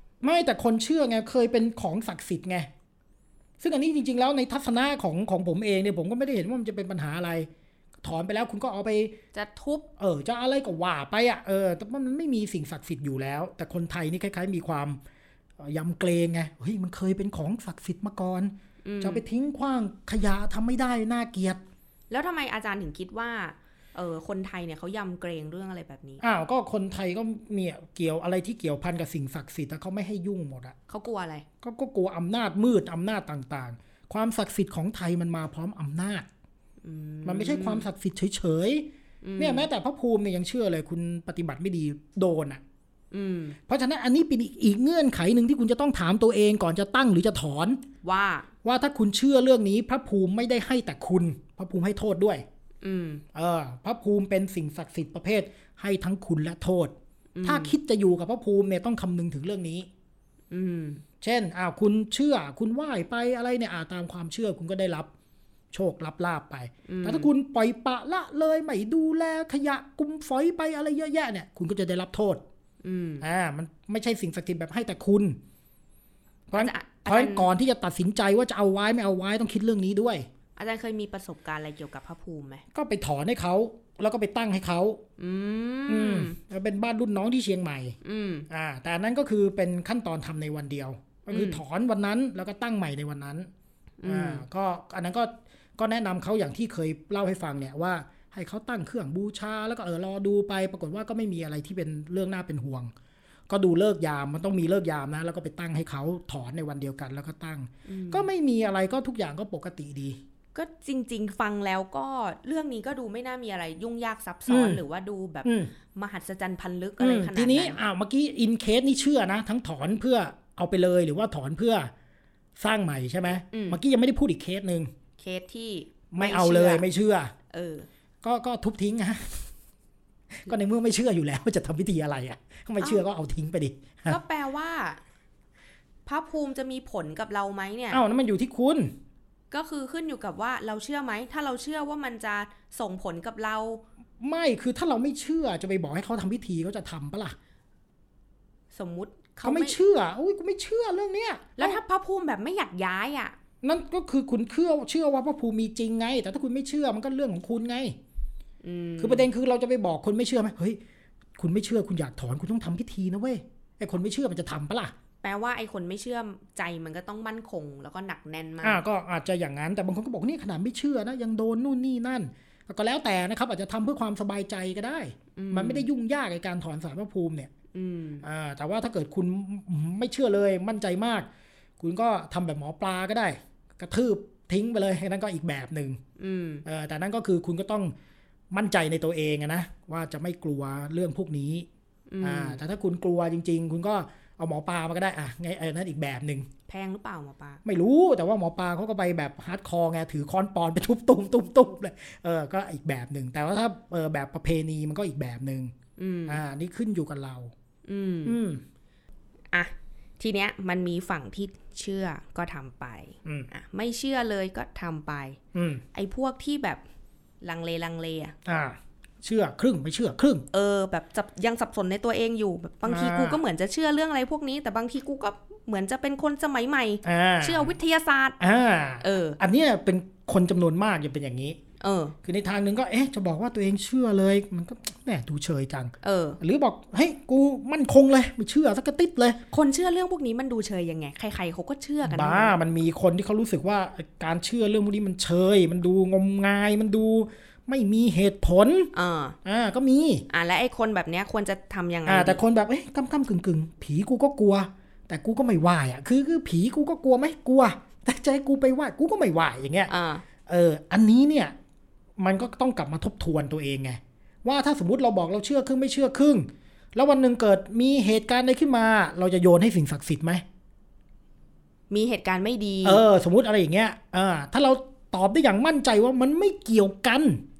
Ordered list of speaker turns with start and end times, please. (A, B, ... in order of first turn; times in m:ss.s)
0:00.2-0:02.7 A
0:03.6-0:07.5 A
0:08.0-0:09.2 A
0:09.3-0:09.8 B
0:10.0-0:15.0 A
0:15.6-0:21.6 A
0:18.8-0:19.2 B
0:22.1-0:26.2 B
0:26.2-0:30.8 A
0:30.9-0:31.4 B
0:31.6-0:36.3 A
0:36.8-0:37.9 B
0:37.2-0:42.6 A
0:39.2-0:39.7 B
0:43.1-0:43.6 B
0:43.7-0:47.8 A
0:48.0-0:48.5 B
0:48.6-0:52.4 A
0:52.8-0:53.2 B
0:53.3-0:59.9 A
0:57.3-0:57.7 B
1:00.5-1:01.0 B
1:01.2-1:05.1 A
1:05.7-1:12.4 A
1:06.9-1:07.3 B
1:12.8-1:13.2 B
1:13.2-1:15.4 A
1:16.5-1:20.3 A
1:16.6-1:17.5 B
1:20.6-1:22.6 B
1:22.7-1:25.0 A
1:25.2-1:26.4 B
1:25.9-1:28.0 A
1:28.0-1:28.5 B
1:28.5-1:33.5 A
1:31.3-1:31.6 B
1:34.0-1:34.4 B
1:34.0-1:42.9 A
1:43.5-1:50.2 A
1:47.9-1:48.3 B
1:50.5-1:57.8 B
1:54.5-1:54.8 A
1:55.4-1:55.7 A
1:57.0-2:01.9 A
2:02.6-2:04.9 A
2:03.5-2:03.8 B
2:05.2-2:06.8 B
2:06.1-2:07.3 A
2:07.5-2:07.9 B
2:08.2-2:09.5 A
2:10.3-2:14.2 A
2:14.1-2:15.0 B
2:16.0-2:18.0 B
2:17.9-2:18.9 A
2:19.5-2:23.8 B
2:24.2-2:27.4 A
2:28.7-2:29.8 B
2:29.4-2:31.8 A
2:31.6-2:33.3 B
2:33.6-2:38.0 A
2:38.6-2:39.3 B
2:39.0-2:40.8 A
2:41.4-2:44.9 A
2:45.2-2:48.8 B
2:48.6-2:57.5 A
2:55.3-2:55.8 B
2:57.7-2:58.2 B
2:58.2-3:01.3 A
3:01.8-3:06.0 A
3:06.2-3:06.6 B
3:06.6-3:07.9 A
3:08.5-3:11.7 A
3:12.1-3:12.6 B
3:12.2-3:16.5 A
3:16.7-3:17.6 B
3:17.6-3:25.7 A
3:26.0-3:26.4 B
3:26.3-3:27.5 A
3:27.8-3:28.4 B
3:28.2-3:28.6 A
3:29.5-3:35.4 B
3:35.5-3:35.8 A
3:35.9-3:36.8 B
3:37.4-3:38.3 B
3:38.4-3:40.4 A
3:40.5-3:48.4 B
3:42.8-3:43.4 A
3:47.0-3:47.7 A
3:48.4-3:51.6 A
3:49.0-3:49.4 B
3:51.8-3:52.2 B
3:52.2-3:59.4 A
3:56.0-3:56.4 B
3:59.5-4:02.6 B
4:02.0-4:08.9 A
4:08.9-4:09.4 B
4:09.4-4:10.2 A
4:10.3-4:12.4 B
4:12.1-4:19.9 A
4:19.9-4:20.2 B
4:20.4-4:21.6 A
4:22.2-4:30.4 A
4:31.9-4:33.0 B
4:32.8-4:37.4 A